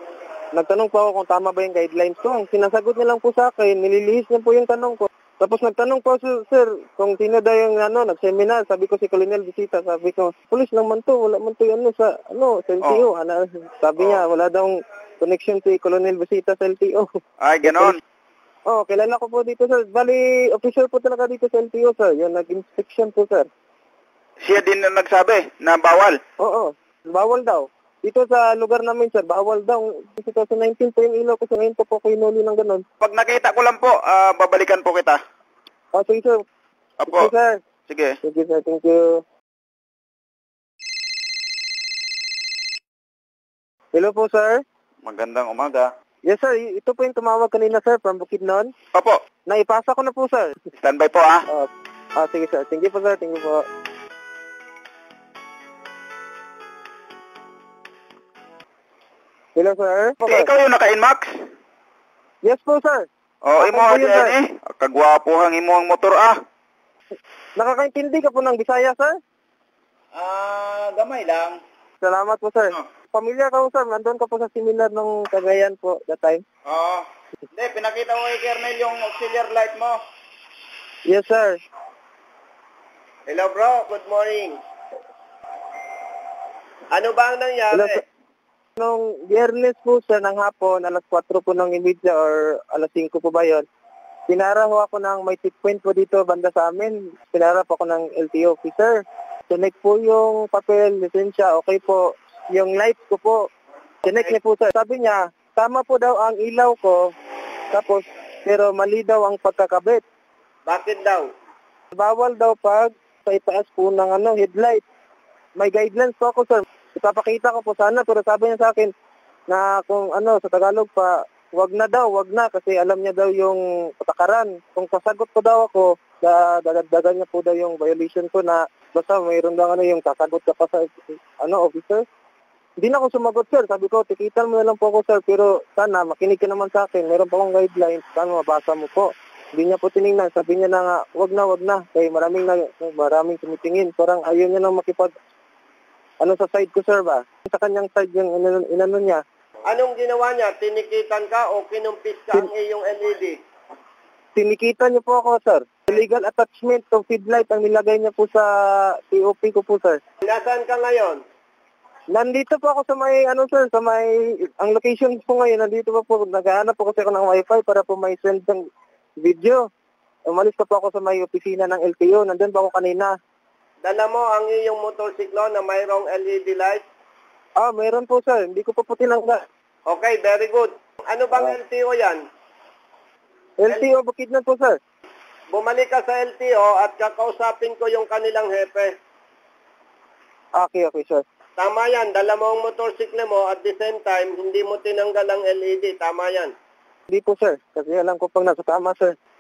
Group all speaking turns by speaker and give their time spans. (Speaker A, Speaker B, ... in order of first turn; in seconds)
Speaker A: 0.5-17.1, 17.7-17.9, 18.7-23.5, 26.4-32.8, 35.9-36.4, 37.1-37.6, 38.2-39.2, 43.9-44.6, 46.3-48.7, 49.5-50.5, 51.5-53.6, 59.6-60.5, 62.4-63.1, 63.6-64.4, 67.6-69.2, 72.0-76.4, 81.1-81.6, 88.8-93.7, 94.3-103.4, 104.0-107.0, 107.7-110.0, 111.9-114.8, 115.6-118.9, 119.5-132.0, 132.8-145.1, 146.2-149.2, 154.3-160.0, 162.1-168.6, 169.2-169.6, 170.3-173.1, 177.6-179.4, 183.6-184.8, 190.6-191.2, 197.1-199.2
Speaker B: 17.4-18.0, 24.4-26.2, 33.0-35.2, 37.0-37.3, 45.0-45.9, 50.8-51.4, 60.3-61.3, 63.5-66.4, 70.2-71.6, 76.7-80.0
Speaker C: 83.3-84.6, 86.9-87.9, 110.7-111.3, 149.7-153.4, 160.2-161.2, 173.8-176.8, 179.9-182.2, 185.5-188.9, 191.6-196.5